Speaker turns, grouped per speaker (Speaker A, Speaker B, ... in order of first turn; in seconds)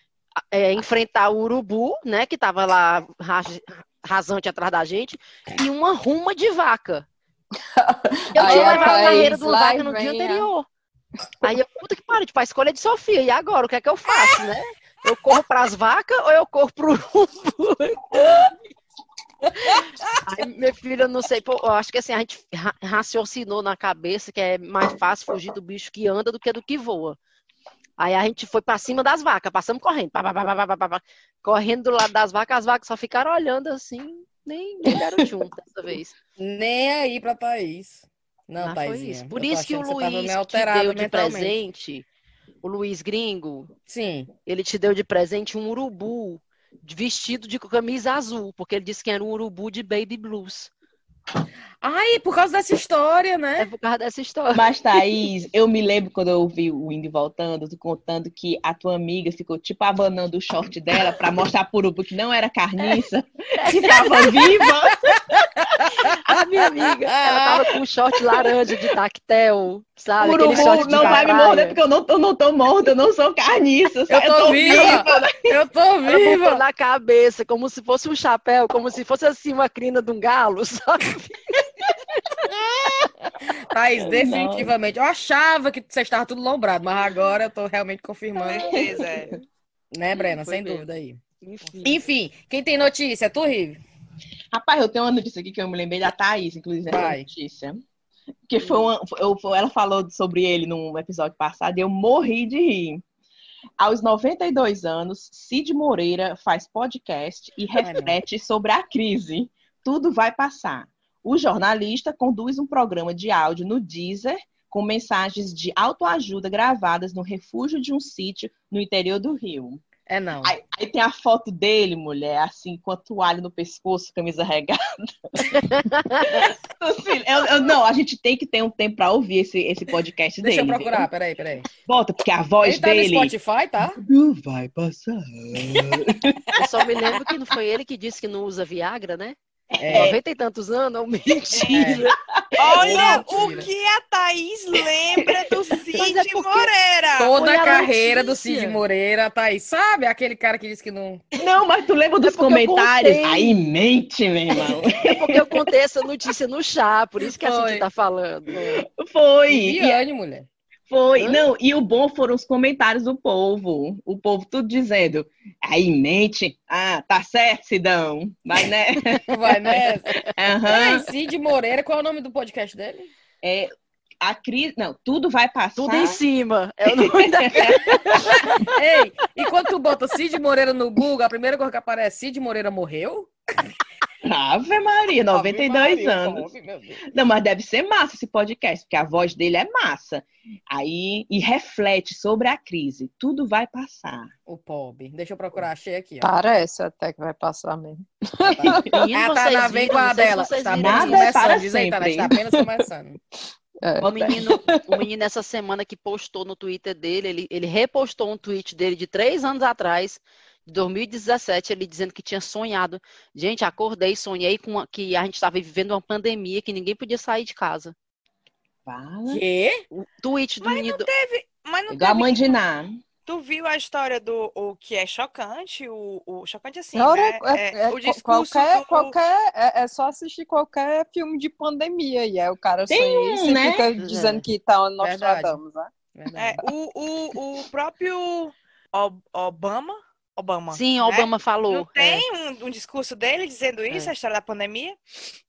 Speaker A: 0.4-7.1, 8.3-10.7, 11.4-18.6, 19.6-27.2, 28.0-36.2, 38.6-42.1, 42.6-43.7, 44.4-50.7, 53.6-54.7, 63.6-64.2, 66.3-71.8, 74.6-75.1, 76.1-81.7, 90.3-90.8, 91.4-92.0, 98.6-98.9, 125.5-126.5, 136.6-139.4, 139.9-142.1, 145.9-146.7, 147.2-148.7, 152.2-153.7, 154.6-158.8, 161.2-161.4, 175.8-178.8, 198.7-201.4, 204.0-217.9, 219.9-221.1, 240.7-242.2
Speaker B: 7.8-10.5, 196.2-199.0, 203.8-205.0, 226.9-235.9
Speaker C: 8.5-8.9, 14.1-14.5, 19.6-20.2, 36.4-41.5, 43.9-44.3, 51.8-53.7, 66.9-67.6, 70.5-71.4, 74.1-76.6, 82.5-88.8, 89.9-91.2, 91.8-93.8, 96.9-97.3, 107.8-108.2, 120.1-120.6, 130.4-131.7, 132.6-134.0, 139.8-140.2, 141.7-142.1, 142.8-143.7, 147.2-151.2, 157.3-157.8, 159.5-160.5, 169.3-173.1, 178.6-183.3, 185.3-187.1, 194.5-196.3, 198.5-203.2, 219.3-219.8, 234.1-234.4, 235.0-235.6, 236.2-236.7
Speaker D: 54.5-66.1, 68.2-68.5, 70.2-75.6, 84.0-84.7, 88.7-89.4, 94.5-97.8, 98.5-103.0, 103.8-119.8, 120.4-131.1, 131.9-133.3, 134.0-137.2, 139.8-140.2, 141.5-143.3, 145.2-145.6, 151.3-155.7, 159.0-160.0, 160.9-171.1, 173.4-173.7, 174.2-176.2, 176.9-178.6, 184.2-186.5, 187.1-194.3, 200.7-202.4, 204.0-204.3, 218.9-219.4, 221.9-223.0, 232.9-233.9
Speaker E: 88.4-89.4, 142.6-147.3, 220.6-222.6, 223.3-229.1, 236.3-245.0